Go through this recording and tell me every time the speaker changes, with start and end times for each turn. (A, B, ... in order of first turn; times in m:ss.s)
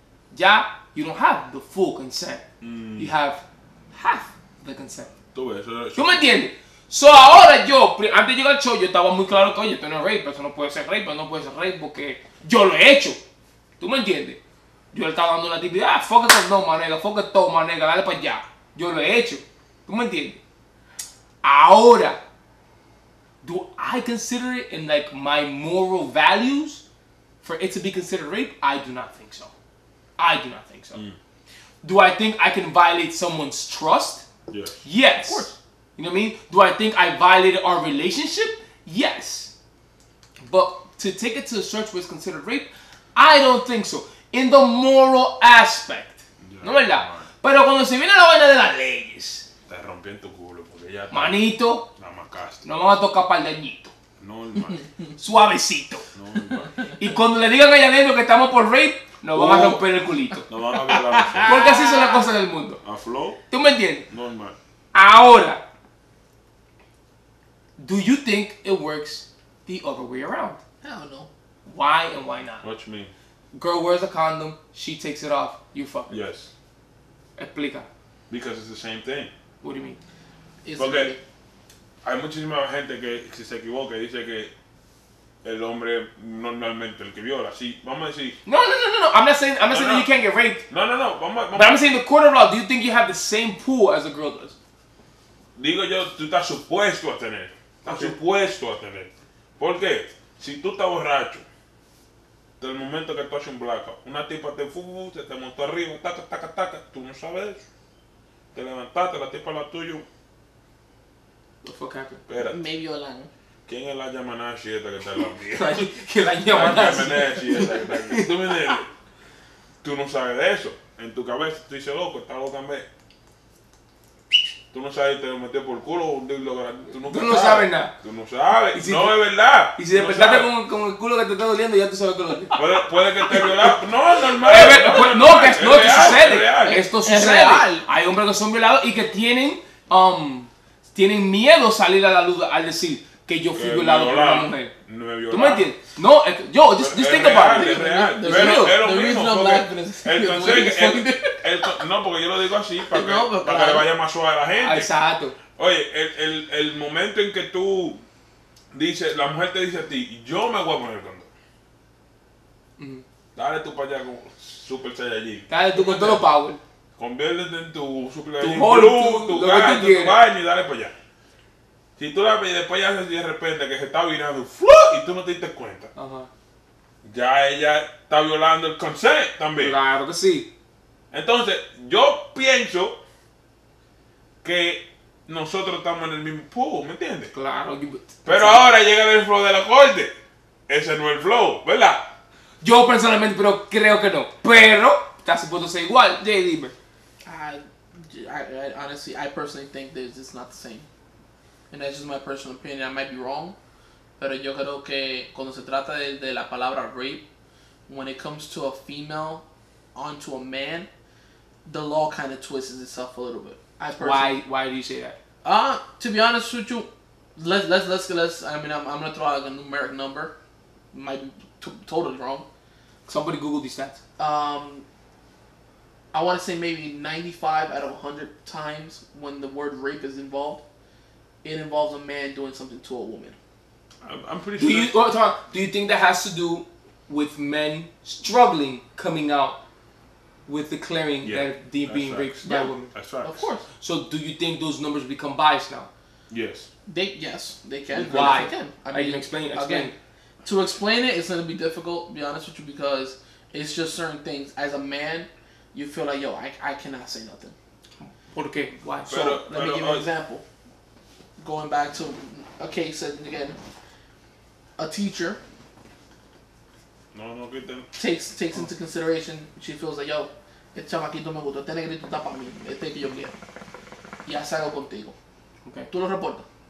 0:00.3-0:02.4 A
0:02.6-0:03.2 B
0:03.0-0:05.1 A
0:05.3-0:06.2 B
0:06.0-0:13.2 A
0:13.8-0:14.4 A
0:14.9-0:20.4 A
0:21.4-0:22.2 A
0:23.4-0:26.8 A
0:27.4-0:29.5 A
0:30.2-0:31.0 A
0:31.8-0:34.3 A
0:34.5-0:34.8 B
0:34.8-0:39.5 A
0:35.2-0:35.5 C
0:40.4-0:49.5 A
0:46.4-0:47.3 B
0:49.7-0:52.6 B
0:51.1-0:51.9 A
0:52.6-0:53.9 A
0:54.2-0:54.8 B
0:55.2-0:56.1 A
0:56.1-0:56.8 B
0:56.9-1:00.5 A
0:59.3-0:59.9 B
1:00.4-1:01.8 B
1:00.8-1:02.2 C
1:01.4-1:02.8 A
1:02.8-1:03.4 B
1:03.5-1:04.1 A
1:04.1-1:04.6 B
1:04.9-1:05.6 A
1:07.8-1:10.6 A
1:10.8-1:11.3 C
1:11.6-1:12.6 A
1:12.6-1:13.1 B
1:13.5-1:16.1 A
1:16.1-1:16.5 B
1:17.4-1:17.9 A
1:18.3-1:19.3 B
1:19.6-1:20.0 A
1:20.6-1:21.2 C
1:20.8-1:21.2 B
1:22.0-1:24.5 B
1:25.4-1:28.4 B
1:28.4-1:30.6 A
1:29.7-1:30.1 B
1:30.7-1:31.8 B
1:31.5-1:34.6 A
1:35.6-1:41.4 B
1:37.8-1:38.2 A
1:42.6-1:47.6 B
1:48.5-1:50.1 B
1:51.6-1:52.2 A
1:52.3-1:52.6 B
1:52.4-1:53.3 C
1:53.7-1:55.9 B
1:55.4-1:58.8 A
1:56.5-1:58.9 B
1:59.8-2:02.9 B
2:04.7-2:10.5 B
2:07.0-2:07.9 A
2:08.7-2:13.7 A
2:12.5-2:16.8 B
2:14.4-2:24.7 A
2:15.7-2:17.9 C
2:23.6-2:25.7 B
2:25.3-2:28.8 A
2:26.8-2:34.9 B
2:27.5-2:31.9 C
2:32.8-2:33.9 C
2:34.5-2:35.4 A
2:35.6-2:38.0 B
2:38.7-2:41.3 B
2:42.8-2:43.0 A
2:43.4-2:46.3 B
2:45.5-2:46.6 A
2:47.0-2:50.9 B
2:48.4-2:50.2 A
2:52.0-2:55.9 B
2:56.0-2:56.3 A
2:57.0-2:59.8 B
2:59.6-3:00.5 A
3:01.1-3:03.0 B
3:04.4-3:07.3 B
3:07.3-3:08.6 A
3:08.3-3:10.1 B
3:10.7-3:12.1 B
3:12.6-3:16.7 A
3:17.2-3:20.9 C
3:21.7-3:23.6 C
3:24.2-3:27.2 C
3:27.9-3:29.4 C
3:30.0-3:30.9 C
3:31.7-3:34.4 C
3:34.0-3:35.2 A
3:35.4-3:40.4 C
3:40.9-3:42.5 C
3:43.1-3:44.0 A
3:44.2-3:44.8 C
3:46.1-3:50.6 C
3:51.4-3:53.4 C
3:54.0-3:55.0 B
3:54.6-3:59.6 A
4:00.5-4:02.9 A
4:01.2-4:03.5 B
4:02.5-4:03.6 C
4:03.8-4:05.9 A
4:06.3-4:06.7 B
4:06.9-4:09.9 C
4:07.9-4:08.5 B
4:08.0-4:10.0 A
4:10.4-4:17.6 C
4:18.0-4:19.4 A
4:19.1-4:20.1 B
4:19.1-4:20.4 C
4:21.4-4:23.6 C
4:24.8-4:25.4 C
4:27.1-4:27.9 B
4:27.9-4:33.3 C
4:34.3-4:35.1 C
4:35.6-4:35.9 A
4:35.9-4:36.4 C